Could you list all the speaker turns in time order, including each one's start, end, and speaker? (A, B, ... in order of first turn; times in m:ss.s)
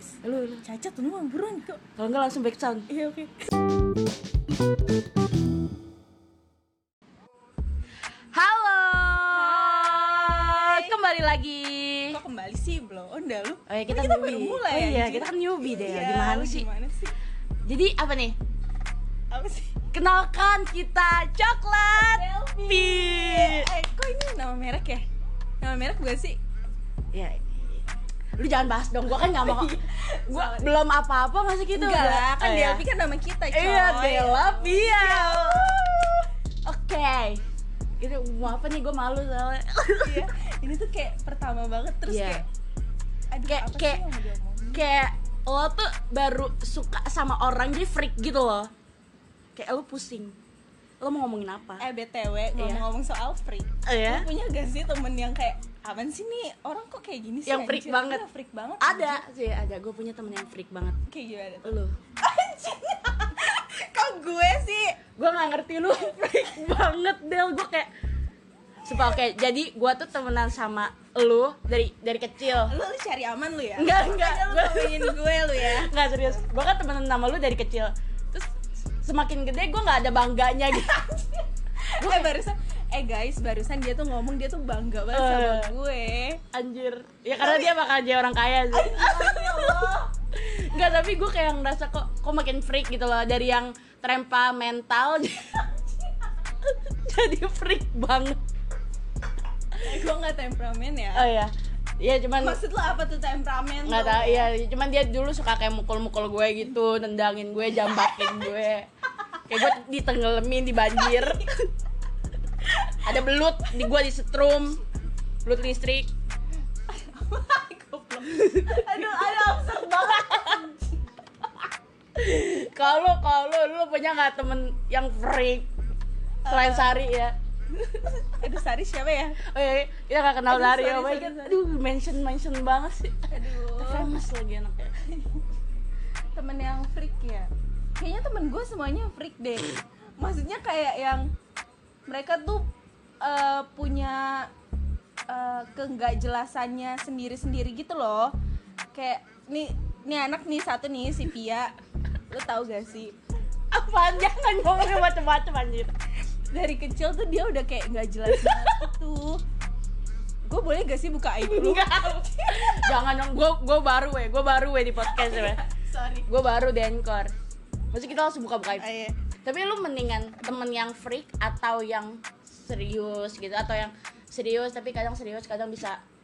0:00.2-0:00.6 A
0:00.6-0:01.8 B
0:02.0-0:02.9 A
0:02.9-0:03.4 B
0:08.3-0:12.2 A
0:09.3-0:11.0 B
0:12.1-0:17.1 B
0:13.7-0:16.7 A
0:17.6-0:18.4 A
0:19.3-0:19.8 B
0:19.9-0:23.7 A
0:21.9-0:25.0 B
0:25.6-0:26.4 B
0:27.1-0:27.8 A
0:28.4-0:29.7 A
0:29.3-0:30.7 B
0:30.3-0:32.8 A
0:31.7-0:36.1 B
0:33.5-0:37.4 A
0:38.0-0:40.3 A
0:40.0-0:42.4 B
0:42.1-0:42.4 A
0:43.3-0:44.8 B
0:43.5-0:44.0 A
0:44.7-0:48.7 A
0:49.6-0:50.4 A
0:51.0-0:51.8 A
0:51.8-0:59.2 B
0:52.6-0:52.8 A
0:53.8-0:54.3 A
0:57.4-0:58.2 A
0:58.8-1:01.0 A
1:01.1-1:05.0 B
1:01.6-1:02.0 A
1:05.2-1:07.9 A
1:08.8-1:12.7 A
1:12.6-1:16.3 B
1:13.8-1:18.5 A
1:19.0-1:21.4 A
1:21.8-1:26.4 B
1:22.0-1:22.4 A
1:25.1-1:25.7 A
1:26.5-1:35.7 A
1:27.4-1:27.7 B
1:28.7-1:30.1 B
1:36.6-1:38.4 A
1:39.8-1:41.3 B
1:41.1-1:42.6 A
1:42.4-1:44.5 B
1:43.8-1:48.9 A
1:49.5-1:51.7 A
1:51.0-1:51.6 B
1:53.0-1:54.8 A
1:55.4-1:56.1 A
1:56.9-2:01.0 B
1:58.2-2:00.5 A
2:02.2-2:05.7 A
2:06.4-2:07.0 B
2:06.5-2:07.4 A
2:08.2-2:09.4 B
2:09.4-2:14.9 A
2:10.5-2:11.6 B
2:13.3-2:14.1 B
2:15.0-2:15.4 B
2:16.3-2:21.3 B
2:22.1-2:22.7 B
2:23.2-2:24.5 B
2:25.3-2:28.3 B
2:28.9-2:31.7 B
2:32.3-2:33.2 B
2:33.7-2:35.9 A
2:36.5-2:39.4 B
2:38.3-2:38.8 A
2:40.4-2:42.9 B
2:41.4-2:45.6 A
2:45.0-2:46.2 B
2:46.3-2:47.3 A
2:47.9-2:48.8 A
2:48.8-2:49.2 B
2:49.4-2:56.0 A